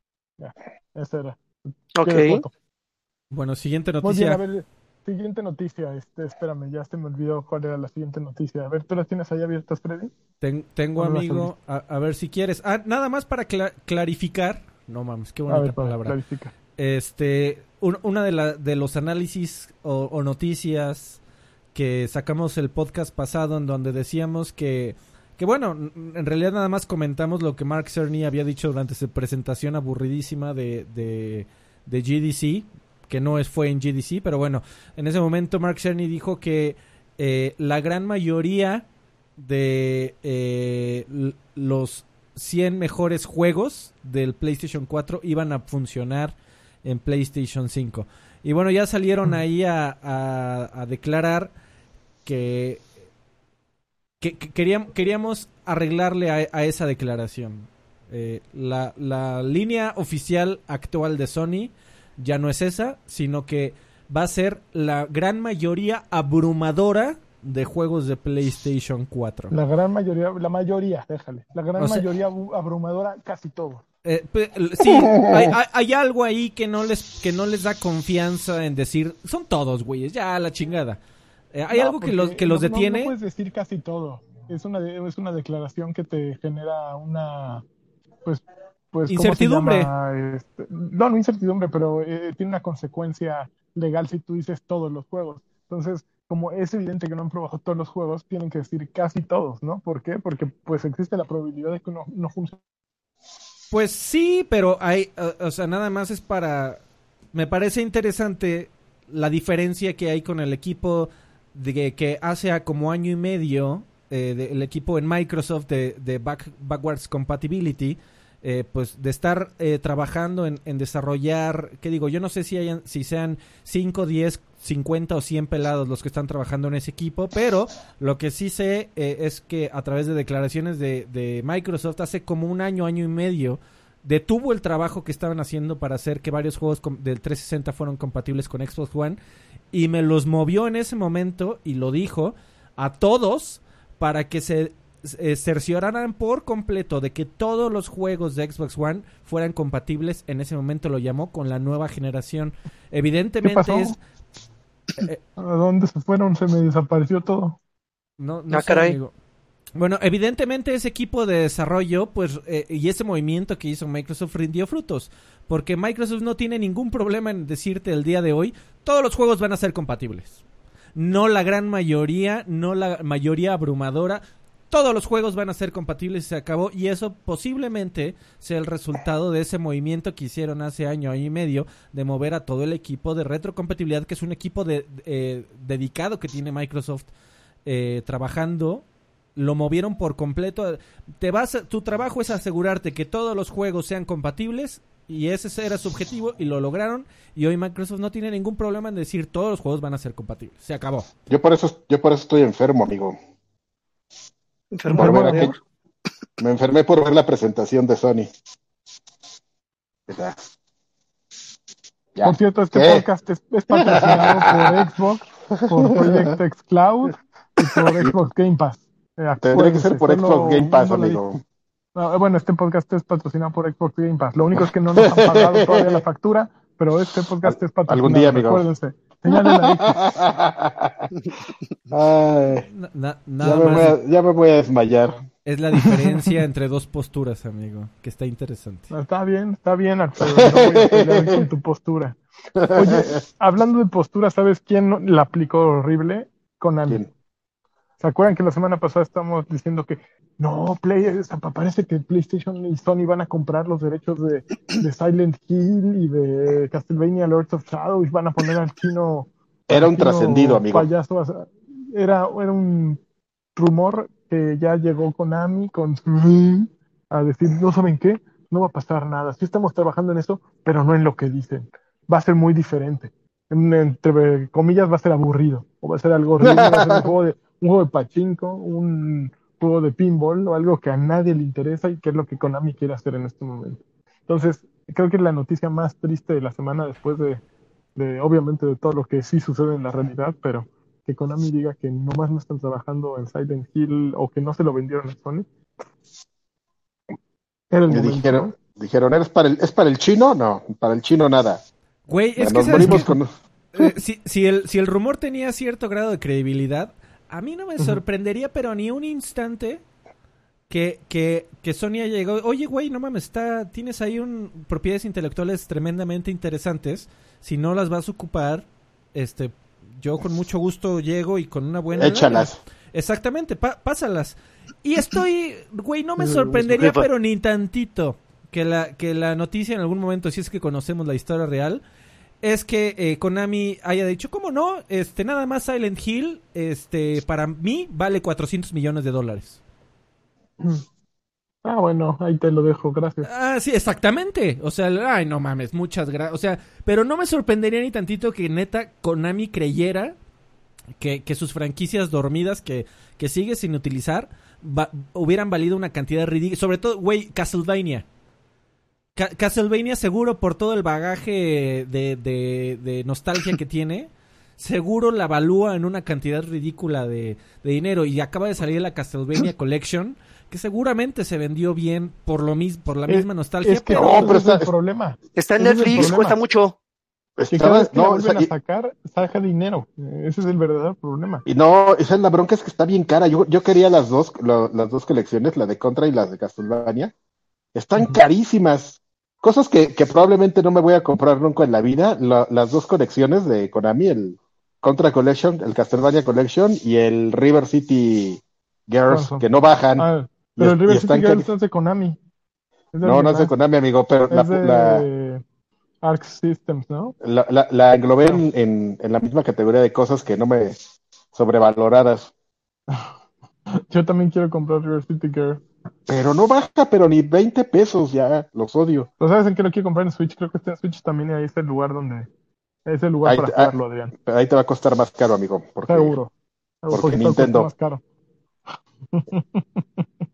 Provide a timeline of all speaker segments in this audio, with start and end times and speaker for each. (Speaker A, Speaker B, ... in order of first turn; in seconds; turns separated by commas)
Speaker A: 0.4-1.4, Speaker B: 1.9-2.4, Speaker A: 2.0-2.5, Speaker C: 3.3-4.4, Speaker A: 4.0-10.1, Speaker C: 10.4-16.1, Speaker A: 11.0-11.5, Speaker A: 15.5-16.5, Speaker C: 16.8-21.2, Speaker C: 21.7-38.9, Speaker C: 39.4-51.5, Speaker C: 52.2-52.8, Speaker C: 54.2-69.5, Speaker A: 69.5-73.8, Speaker C: 71.8-72.0, Speaker C: 74.0-81.0, Speaker D: 75.1-75.4, Speaker C: 81.5-83.1, Speaker A: 81.7-87.6, Speaker A: 88.2-102.6, Speaker C: 89.1-89.9, Speaker C: 103.7-106.8, Speaker C: 107.3-139.2, Speaker C: 139.7-154.0, Speaker A: 153.4-154.0, Speaker A: 155.4-157.6, Speaker C: 158.2-159.1, Speaker B: 158.5-158.9, Speaker C: 159.8-170.4, Speaker C: 170.9-187.1, Speaker C: 187.6-188.8, Speaker C: 189.3-201.1, Speaker D: 201.3-203.2, Speaker B: 204.7-205.6, Speaker A: 204.9-205.5, Speaker D: 204.9-205.5, Speaker D: 206.4-208.3, Speaker D: 210.1-210.5, Speaker D: 212.1-213.0, Speaker A: 212.2-221.2, Speaker D: 213.7-214.8, Speaker D: 215.6-216.3, Speaker D: 217.6-218.1, Speaker D: 219.4-221.4, Speaker A: 221.9-230.0, Speaker D: 225.0-226.0, Speaker D: 227.4-228.6, Speaker D: 229.3-231.1, Speaker D: 231.9-232.7, Speaker C: 232.7-234.0, Speaker D: 233.4-235.2, Speaker C: 235.4-238.9, Speaker A: 238.9-242.2, Speaker D: 240.3-241.4, Speaker D: 242.6-243.2, Speaker A: 242.7-247.0, Speaker A: 248.0-263.0, Speaker D: 259.7-260.9, Speaker A: 263.6-287.4, Speaker D: 276.4-277.1, Speaker A: 287.9-295.5, Speaker A: 297.7-298.5, Speaker D: 297.9-301.6, Speaker C: 302.1-303.1, Speaker D: 302.4-303.3, Speaker A: 302.6-303.1, Speaker C: 303.7-309.8, Speaker C: 310.7-331.8, Speaker D: 321.9-322.6, Speaker B: 326.4-327.0, Speaker C: 332.4-339.6, Speaker A: 341.6-343.3, Speaker C: 343.2-350.1, Speaker C: 351.0-358.0, Speaker C: 359.1-374.3, Speaker A: 373.1-376.4, Speaker D: 373.9-374.7, Speaker B: 375.4-376.7, Speaker D: 377.4-378.5, Speaker A: 377.5-381.4, Speaker D: 381.5-387.1, Speaker D: 387.7-400.1, Speaker A: 399.1-399.4, Speaker A: 400.0-402.2, Speaker D: 400.6-401.5, Speaker A: 402.9-403.5, Speaker D: 403.0-405.1, Speaker A: 404.3-405.4, Speaker A: 406.0-407.1, Speaker D: 407.2-410.8, Speaker D: 411.3-412.3, Speaker A: 413.7-415.6, Speaker D: 416.1-419.1, Speaker A: 419.2-422.3, Speaker A: 422.9-424.1, Speaker D: 423.2-423.7, Speaker D: 424.2-426.1, Speaker A: 425.9-426.3, Speaker A: 426.8-428.0, Speaker D: 426.9-427.7, Speaker A: 429.1-430.0